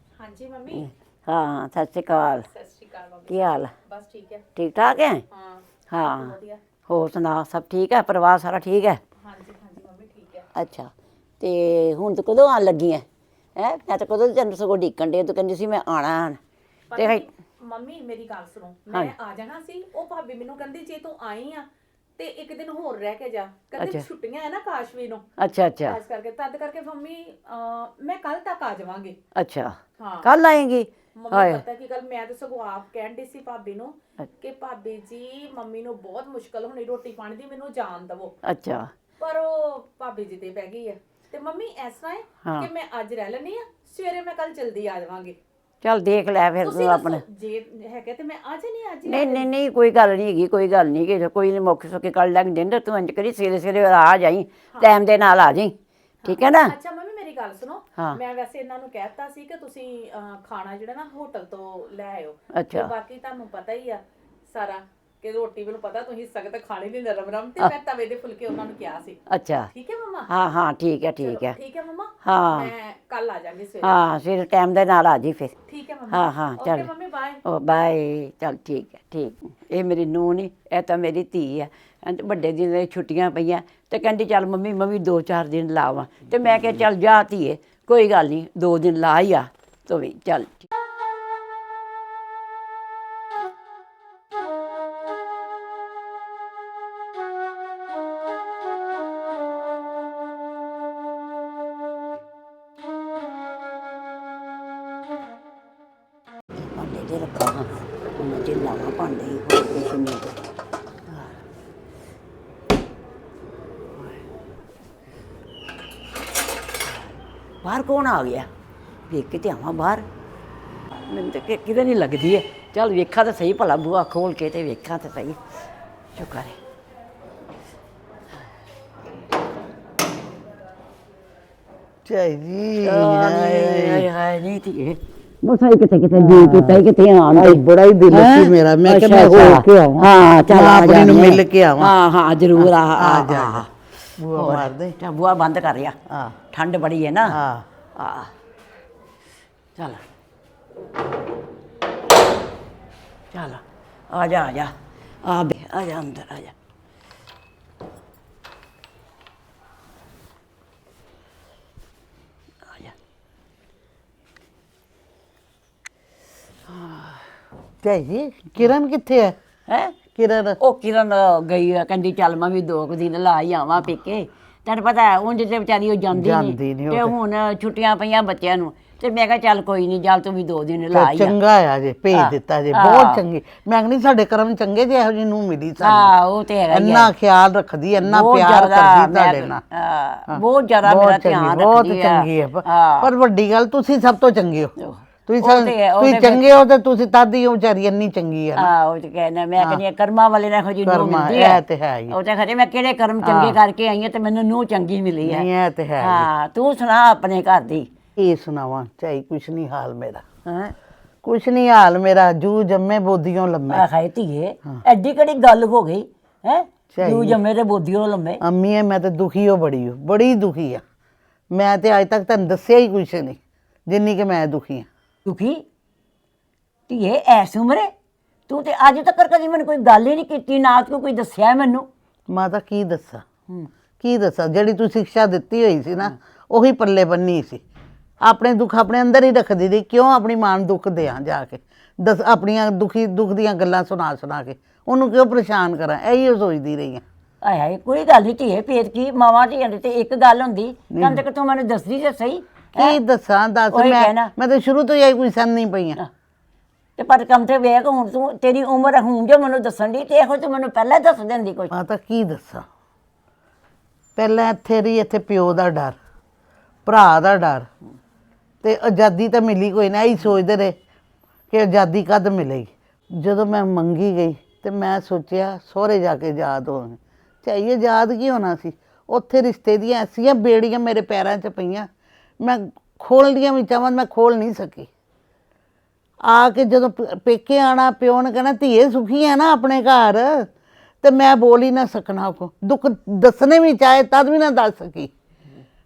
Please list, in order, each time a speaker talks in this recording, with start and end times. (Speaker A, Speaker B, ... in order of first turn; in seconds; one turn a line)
Speaker A: 0.2-0.9
Speaker B: 0.7-2.5
Speaker A: 2.5-4.4
Speaker B: 3.3-3.7
Speaker B: 4.5-5.2
Speaker A: 5.3-6.6
Speaker B: 5.9-6.4
Speaker B: 6.9-9.0
Speaker A: 9.2-10.5
Speaker B: 10.5-16.4
Speaker A: 16.9-21.7
Speaker B: 16.9-17.2
Speaker A: 22.2-25.2
Speaker B: 23.8-24.0
Speaker B: 25.4-26.0
Speaker A: 25.8-29.2
Speaker B: 29.4-31.6
Speaker A: 30.0-30.3
Speaker A: 31.1-38.3
Speaker B: 38.4-38.9
Speaker A: 39.2-45.4
Speaker B: 45.8-47.2
Speaker A: 46.6-49.5
Speaker B: 49.0-56.8
Speaker A: 56.2-69.2
Speaker B: 62.5-62.9
Speaker B: 69.3-69.7
Speaker A: 69.7-70.3
Speaker B: 70.3-71.6
Speaker A: 71.2-74.0
Speaker B: 72.2-72.7
Speaker B: 73.8-75.5
Speaker A: 75.7-77.4
Speaker B: 76.1-76.9
Speaker B: 77.5-90.7
Speaker B: 106.6-110.4
Speaker B: 117.6-118.5
Speaker B: 119.1-120.1
Speaker B: 121.1-125.4
Speaker B: 126.2-126.6
Speaker C: 132.1-134.1
Speaker B: 132.8-143.7
Speaker C: 136.2-136.8
Speaker C: 137.3-141.9
Speaker C: 142.5-143.7
Speaker C: 144.2-145.0
Speaker B: 144.3-146.0
Speaker C: 146.1-146.3
Speaker B: 146.5-147.4
Speaker C: 147.2-147.7
Speaker B: 148.0-148.3
Speaker B: 149.8-150.0
Speaker B: 153.3-154.7
Speaker B: 155.2-156.5
Speaker B: 162.7-162.9
Speaker C: 167.8-169.3
Speaker B: 169.7-170.0
Speaker C: 170.2-170.6
Speaker B: 170.6-181.3
Speaker C: 176.1-177.2
Speaker C: 180.9-186.1
Speaker B: 182.1-183.2
Speaker B: 185.8-187.1
Speaker C: 186.7-189.6
Speaker B: 188.0-193.1
Speaker C: 190.3-194.7
Speaker B: 194.8-196.5
Speaker C: 195.3-198.7
Speaker B: 198.6-205.5
Speaker C: 200.8-202.2
Speaker C: 203.2-203.6
Speaker C: 205.2-206.3
Speaker B: 206.0-207.9
Speaker C: 208.2-210.2
Speaker B: 210.5-210.8
Speaker C: 211.2-213.8
Speaker B: 213.7-218.4
Speaker C: 216.9-217.4
Speaker C: 218.4-220.8
Speaker C: 221.5-224.8
Speaker B: 225.2-225.6
Speaker B: 226.9-227.9
Speaker B: 228.5-231.9
Speaker C: 232.3-233.2
Speaker C: 234.0-237.6
Speaker C: 238.2-247.0
Speaker B: 247.4-253.0
Speaker C: 250.9-251.2
Speaker C: 252.7-256.0
Speaker B: 253.7-254.3
Speaker B: 257.0-261.7
Speaker C: 261.7-262.6
Speaker C: 264.2-265.9
Speaker C: 266.8-267.7
Speaker C: 268.6-270.8
Speaker C: 271.5-281.9
Speaker C: 282.4-284.9
Speaker C: 286.2-290.5
Speaker C: 291.0-295.1